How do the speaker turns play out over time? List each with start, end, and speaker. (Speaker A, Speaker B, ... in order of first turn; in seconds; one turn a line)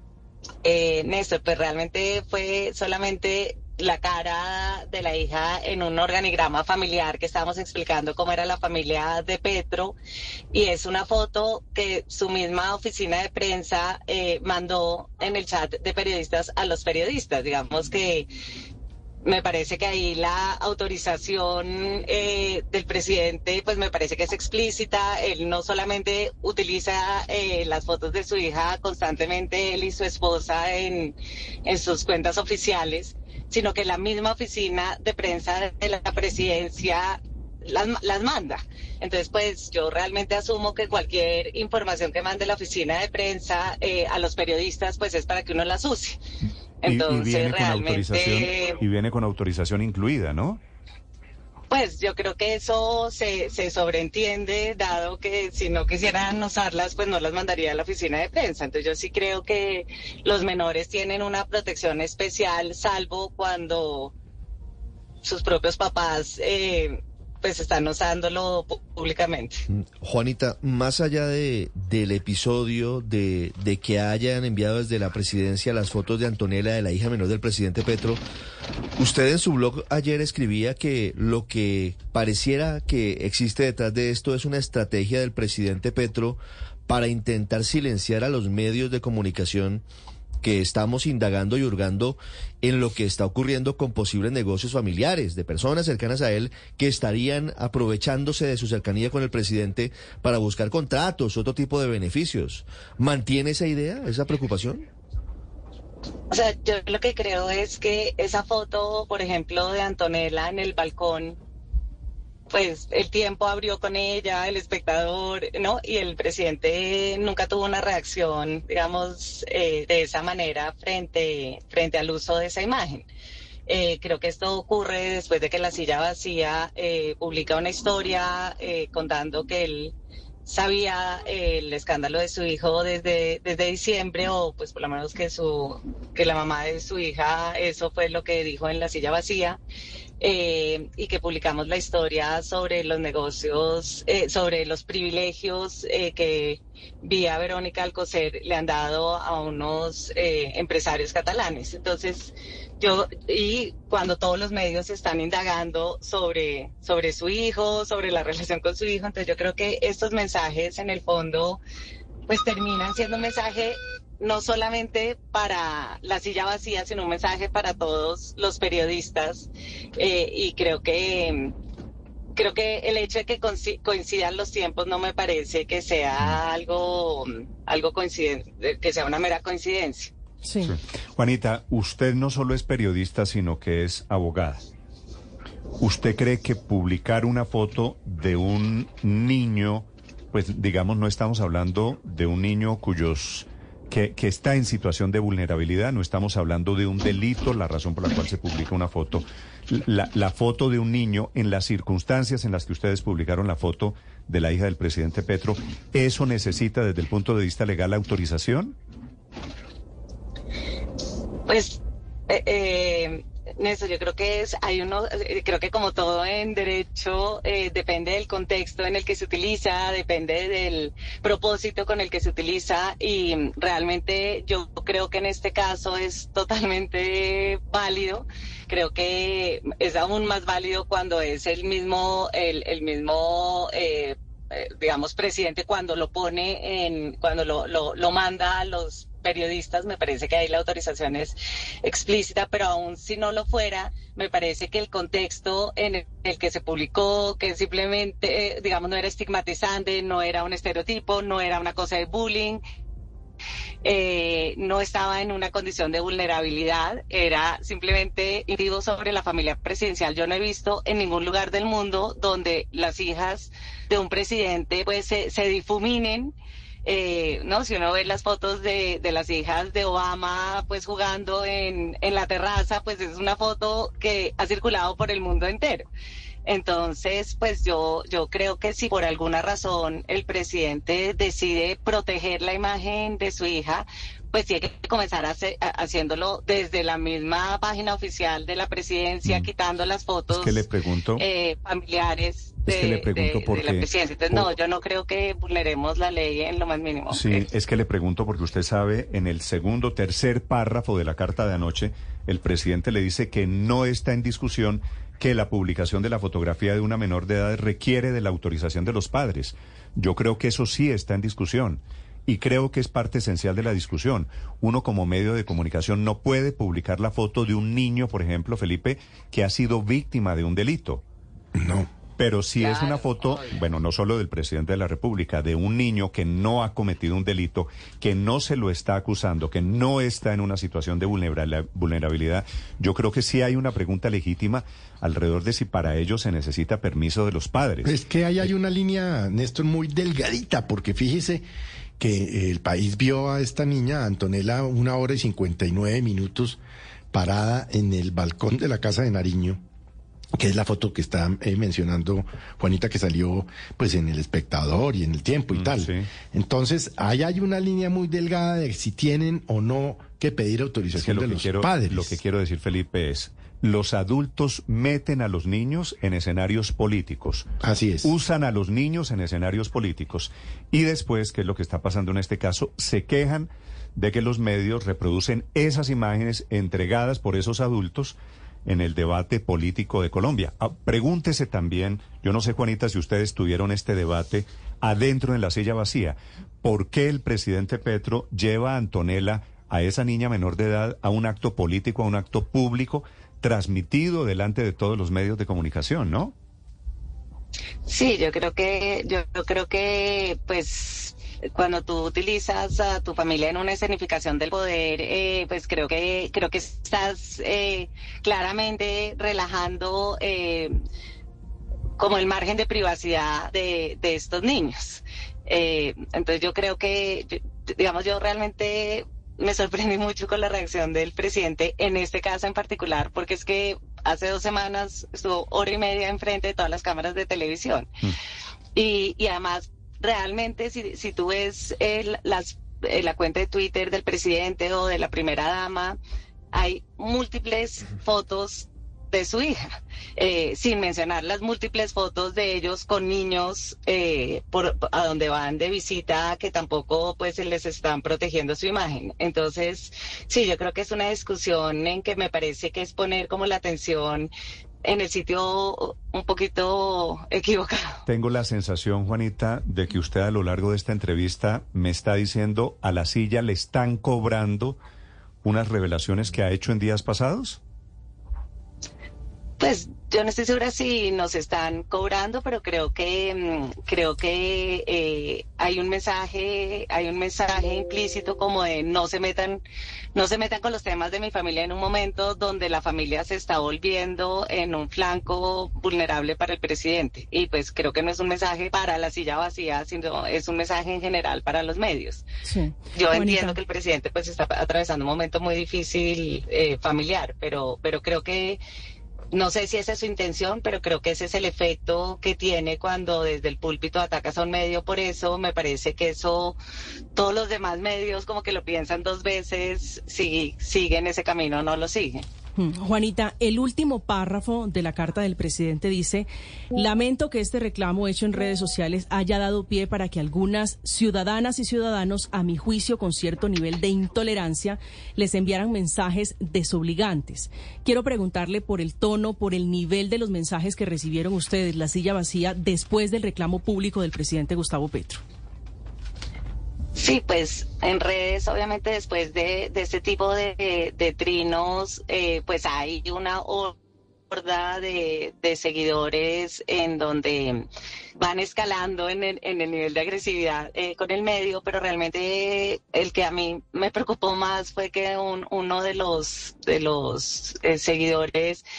Speaker A: 0.6-10.0
Speaker A: 10.5-18.3
Speaker A: 19.2-46.2
Speaker A: 46.8-48.8
Speaker B: 46.9-50.6
Speaker A: 51.7-64.1
Speaker A: 65.2-69.6
Speaker C: 69.7-78.2
Speaker C: 79.0-89.8
Speaker C: 90.4-104.9
Speaker A: 106.3-111.4
Speaker A: 112.5-123.1
Speaker A: 123.7-129.9
Speaker A: 130.4-139.6
Speaker A: 140.2-161.6
Speaker A: 162.3-171.5
Speaker A: 172.3-180.1
Speaker D: 180.4-180.7
Speaker B: 180.6-184.6
Speaker B: 185.8-208.8
Speaker A: 211.5-252.6
Speaker A: 253.8-275.9
Speaker A: 276.4-290.7
Speaker B: 290.3-291.2
Speaker A: 291.2-297.4
Speaker B: 292.6-294.5
Speaker B: 297.1-321.0
Speaker E: 321.5-321.9
Speaker B: 322.2-338.5
Speaker A: 322.6-323.6
Speaker E: 337.8-341.4
Speaker E: 342.0-346.6
Speaker E: 347.1-349.6
Speaker E: 350.3-362.2
Speaker B: 355.5-356.1
Speaker B: 360.9-367.5
Speaker E: 367.6-368.1
Speaker B: 368.0-396.3
Speaker A: 397.9-410.7
Speaker A: 412.0-427.9
Speaker A: 428.7-436.0
Speaker A: 436.5-454.3
Speaker A: 454.8-458.0
Speaker B: 458.1-464.8
Speaker B: 465.4-467.6
Speaker A: 469.6-479.6
Speaker A: 480.1-492.2
Speaker D: 492.4-493.6
Speaker A: 492.9-498.6
Speaker A: 499.3-506.6
Speaker A: 507.1-512.2
Speaker D: 512.6-535.2
Speaker A: 537.0-543.8
Speaker A: 544.3-547.7
Speaker A: 548.2-558.6